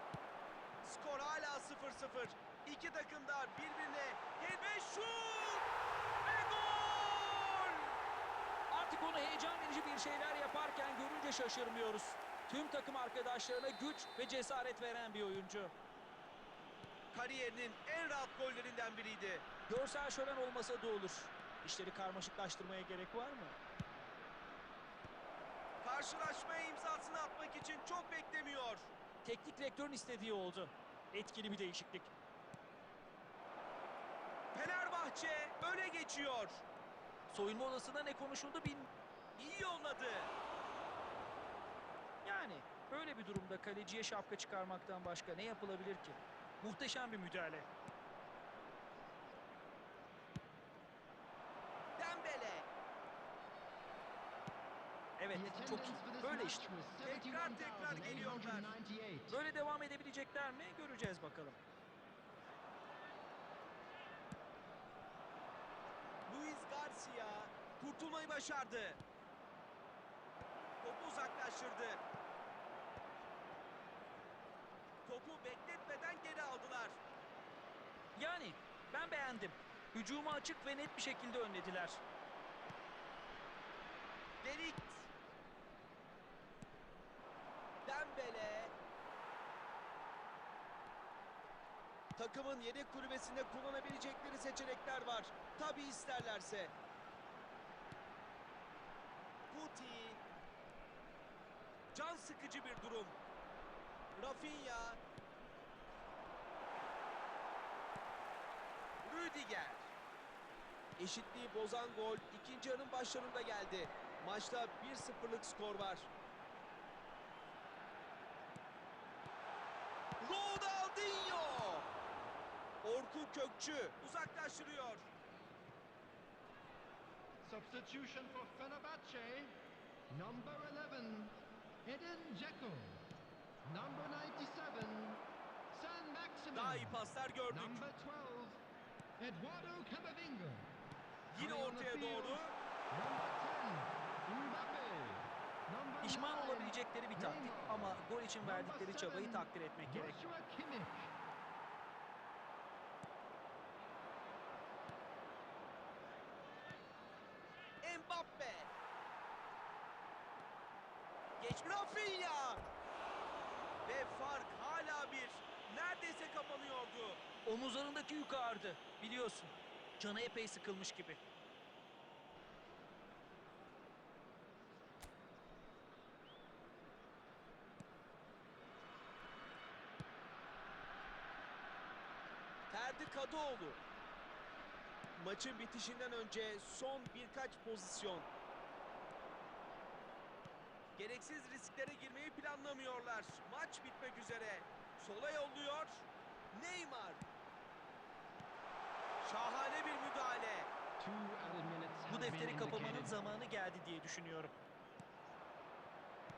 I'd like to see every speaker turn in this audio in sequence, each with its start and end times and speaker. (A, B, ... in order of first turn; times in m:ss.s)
0:00.8-0:05.7 A
0:06.2-0:07.9 A
0:08.7-0:15.7 B
0:17.1-0:19.5 A
0:19.7-0:23.6 B
0:25.8-0:28.9 A
0:29.2-0:32.1 B
0:34.5-0:36.7 A
0:37.3-0:38.9 B
0:39.4-0:40.3 A
0:42.2-0:47.7 B
0:52.0-0:52.7 A
0:55.2-0:56.6 B
0:55.3-0:59.4 C
0:57.0-0:58.8 A
0:59.3-1:01.6 B
1:06.3-1:09.0 A
1:10.8-1:12.0 A
1:15.0-1:17.0 A
1:18.2-1:22.0 B
1:24.4-1:25.1 A
1:27.9-1:28.7 A
1:32.2-1:36.7 A
1:39.5-1:40.2 A
1:41.9-1:43.2 A
1:44.2-1:45.0 A
1:49.0-1:49.9 A
1:51.0-1:56.1 A
2:00.2-2:01.9 A
2:02.8-2:05.1 A
2:07.4-2:09.6 C
2:10.1-2:11.3 C
2:11.8-2:13.0 C
2:13.7-2:17.0 C
2:16.5-2:17.9 A
2:17.5-2:18.6 C
2:19.2-2:20.6 C
2:21.3-2:22.5 A
2:21.4-2:31.1 C
2:26.0-2:30.2 B
2:37.8-2:38.7 A
2:41.4-2:42.6 A
2:43.9-2:47.2 A
2:47.5-2:51.2 B
3:02.7-3:03.8 A
3:05.2-3:08.3 A
3:11.0-3:17.2 A
3:19.2-3:20.7 A
3:21.0-3:23.2 C
3:22.1-3:24.5 B